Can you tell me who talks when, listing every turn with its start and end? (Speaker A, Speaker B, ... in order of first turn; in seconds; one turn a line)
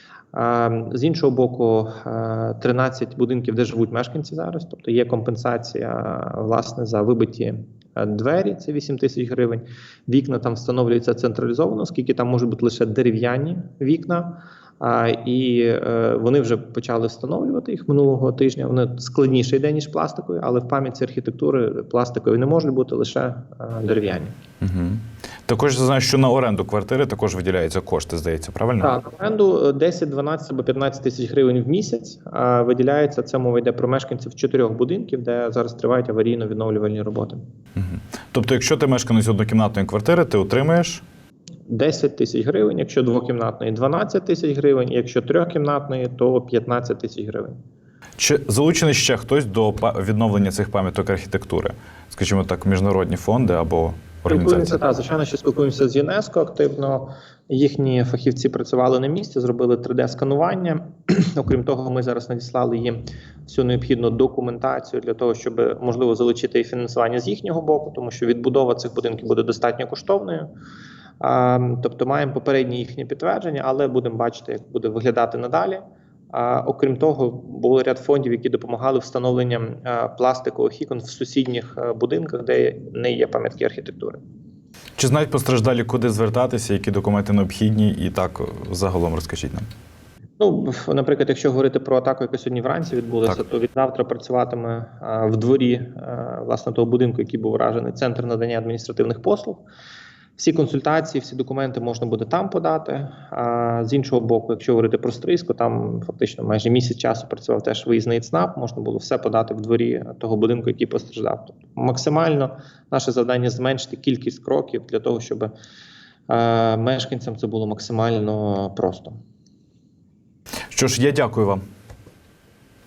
Speaker A: 0.3-24.4
Speaker B: 24.6-29.0
Speaker A: 28.8-37.4
Speaker B: 37.8-41.0
Speaker A: 41.7-47.6
Speaker B: 48.2-54.8
Speaker A: 54.3-70.5
Speaker A: 71.2-84.2
Speaker B: 85.0-89.7
Speaker A: 90.4-99.7
Speaker A: 100.4-115.5
Speaker A: 116.3-119.2
Speaker B: 120.7-121.6